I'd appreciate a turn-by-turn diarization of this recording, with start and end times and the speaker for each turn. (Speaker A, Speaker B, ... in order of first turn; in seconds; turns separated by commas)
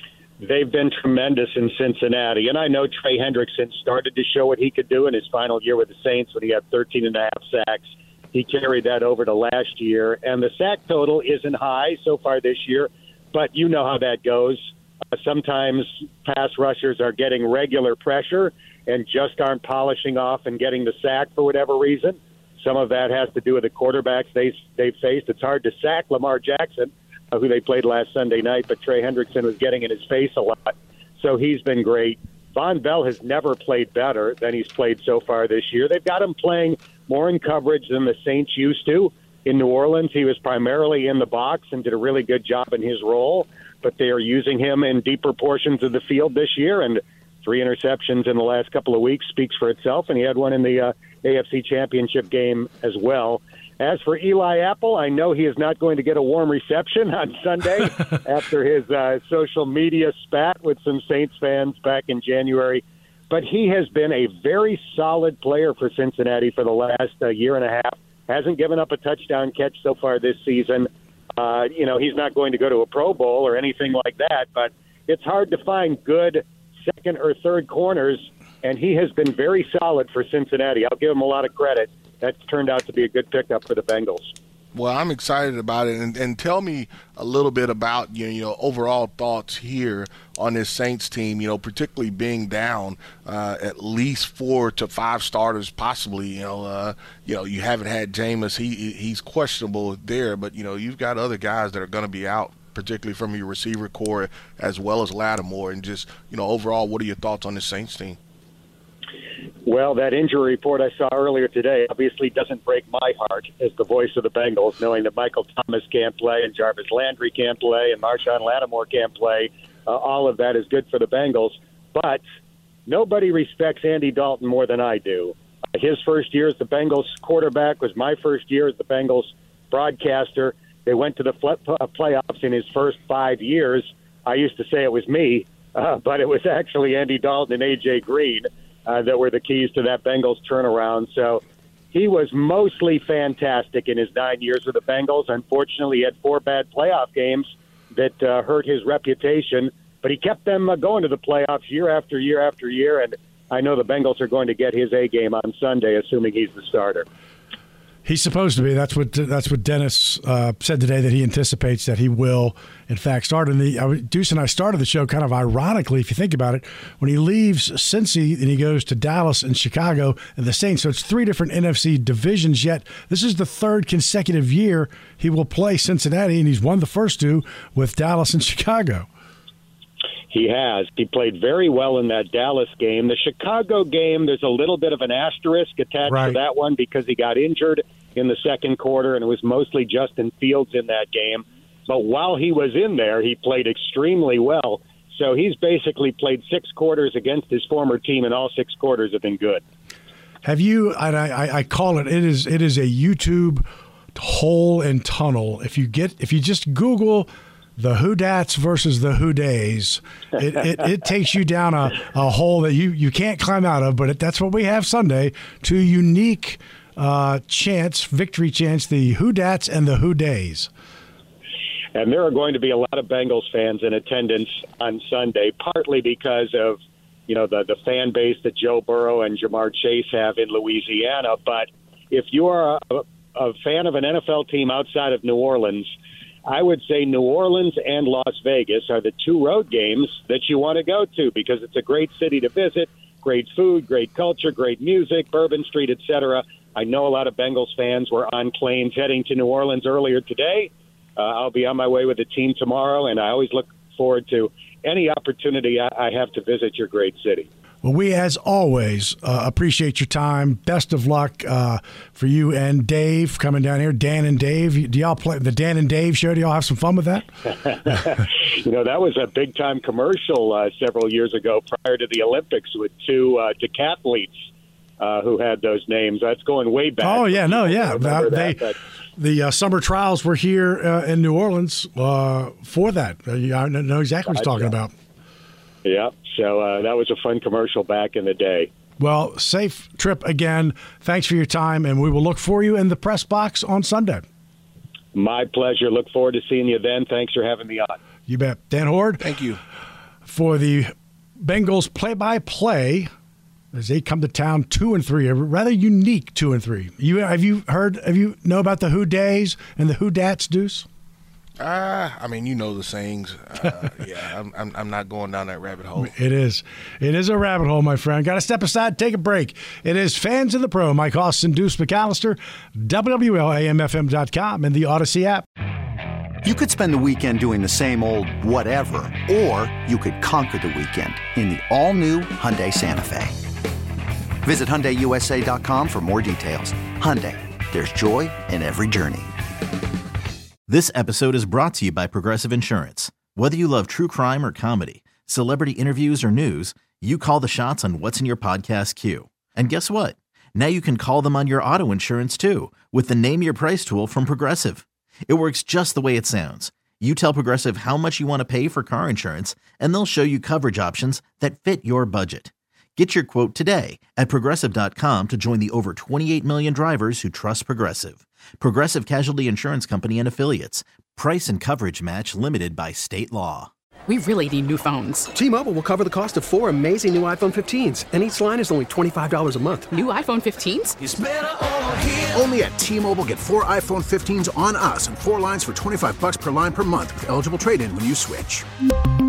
Speaker A: 0.4-84.3, Speaker B: 84.7-108.2, Speaker A: 109.7-122.2, Speaker A: 122.9-157.1, Speaker C: 158.1-179.1, Speaker A: 180.3-199.6, Speaker C: 186.1-186.4, Speaker C: 200.4-203.6, Speaker C: 204.2-220.7, Speaker A: 221.9-235.9, Speaker A: 236.5-257.5, Speaker C: 257.8-267.3, Speaker A: 267.6-274.4, Speaker A: 275.0-278.8, Speaker C: 277.0-284.9, Speaker A: 284.3-284.7, Speaker A: 285.8-288.7, Speaker C: 289.0-294.2, Speaker A: 295.1-298.0, Speaker C: 298.3-299.3, Speaker B: 299.2-299.6, Speaker C: 300.3-303.1, Speaker C: 303.7-310.9, Speaker B: 311.6-316.1, Speaker C: 316.0-325.4, Speaker D: 326.4-333.4, Speaker D: 334.4-339.3, Speaker E: 340.7-373.7, Speaker F: 374.1-375.3, Speaker G: 375.3-379.9, Speaker F: 379.9-381.0, Speaker H: 381.0-388.7